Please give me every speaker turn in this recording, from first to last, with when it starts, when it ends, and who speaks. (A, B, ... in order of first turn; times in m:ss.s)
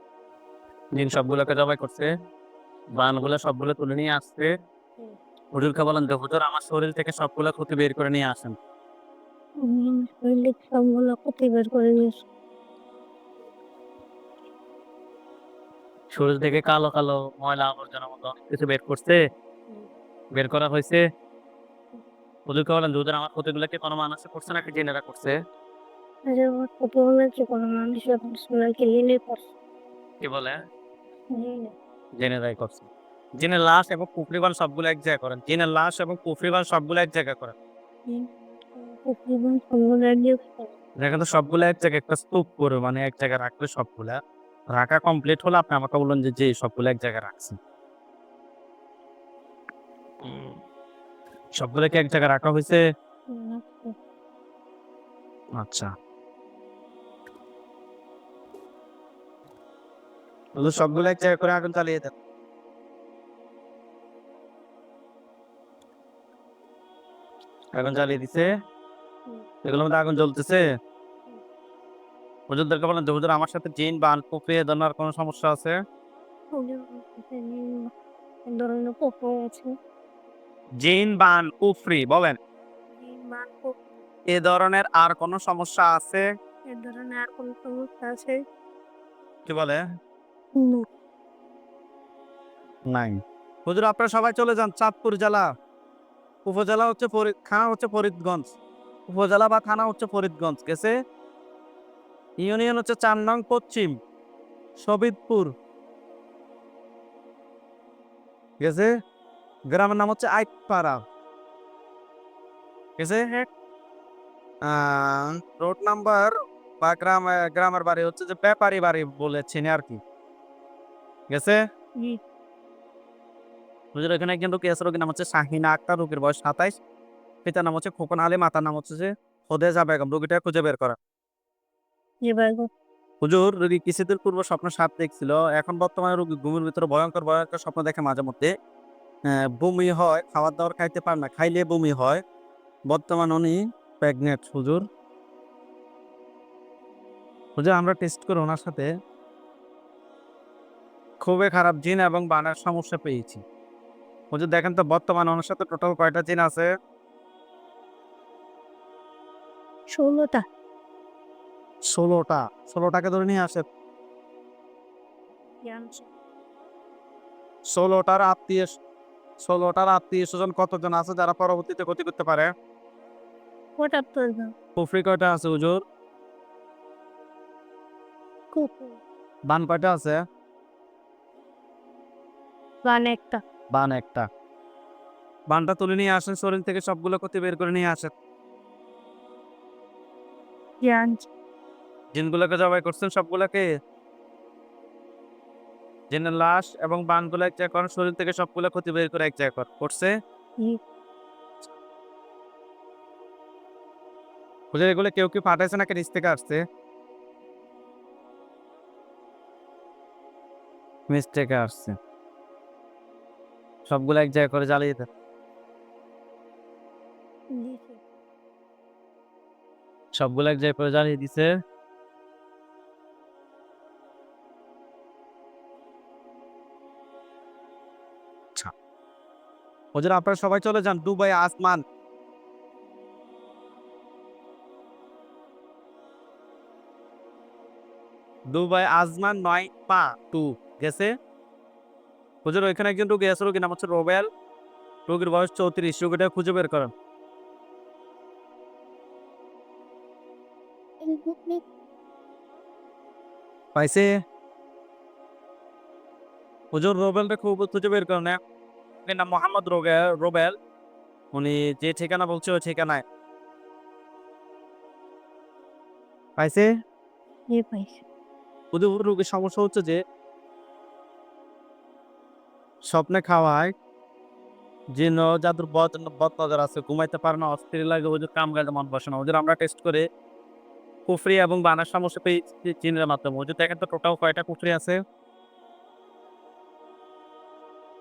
0:00.9-0:02.1 A
0:03.0-0:04.5 A
0:05.5-0:08.6 A
0:09.6-0:12.2 B
0:16.1-0:19.2 A
0:20.4-0:21.0 A
0:22.5-0:25.4 A
0:26.3-0:29.5 B
0:30.2-0:30.6 A
0:31.3-0:31.7 B
0:32.2-0:37.6 A
0:38.1-0:40.7 B
0:41.0-0:44.2 A
0:44.7-0:47.6 A
0:50.2-0:50.6 A
0:51.6-0:52.8 A
0:53.3-0:54.0 B
0:55.6-0:55.9 A
1:00.6-1:02.1 A
1:07.7-1:08.5 A
1:09.6-1:10.6 A
1:12.5-1:15.8 A
1:16.5-1:17.9 B
1:18.5-1:19.7 B
1:20.8-1:22.4 A
1:23.0-1:23.7 B
1:24.3-1:26.2 A
1:26.7-1:28.4 B
1:29.5-1:29.8 A
1:30.6-1:30.9 B
1:32.9-1:35.5 A
1:36.4-1:38.5 A
1:39.1-1:40.9 A
1:42.4-1:43.9 A
1:44.8-1:45.5 A
1:48.6-1:48.9 A
1:49.7-1:51.0 A
1:53.0-1:53.5 A
1:54.6-2:00.0 A
2:01.3-2:01.6 A
2:03.9-2:06.8 A
2:07.4-2:11.0 A
2:12.2-2:12.7 B
2:13.2-2:18.5 A
2:19.3-2:22.2 A
2:22.9-2:24.8 A
2:27.6-2:28.9 A
2:31.2-2:33.4 A
2:34.3-2:36.7 A
2:39.9-2:40.4 B
2:41.9-2:43.6 A
2:45.6-2:46.1 B
2:47.7-2:48.7 A
2:49.4-2:52.5 A
2:53.8-2:54.5 B
2:54.8-2:55.8 A
2:58.5-2:59.0 B
2:59.5-3:00.2 A
3:02.8-3:03.4 B
3:03.7-3:04.3 A
3:05.5-3:08.1 A
3:10.8-3:11.3 B
3:12.1-3:13.7 A
3:16.1-3:20.1 A
3:24.7-3:26.6 A
3:31.1-3:32.0 A
3:33.9-3:35.1 A
3:37.6-3:38.0 B
3:40.1-3:41.5 A
3:49.9-3:51.8 A
3:58.5-4:01.1 A
4:02.4-4:04.3 A
4:05.1-4:06.9 A
4:11.0-4:11.6 B
4:13.8-4:14.1 A
4:16.7-4:18.4 A
4:19.0-4:20.6 A
4:21.3-4:23.0 A
4:26.4-4:26.7 A
4:27.5-4:28.0 B
4:28.7-4:30.0 A
4:32.8-4:33.7 A
4:35.0-4:40.0 A
4:41.1-4:45.0 A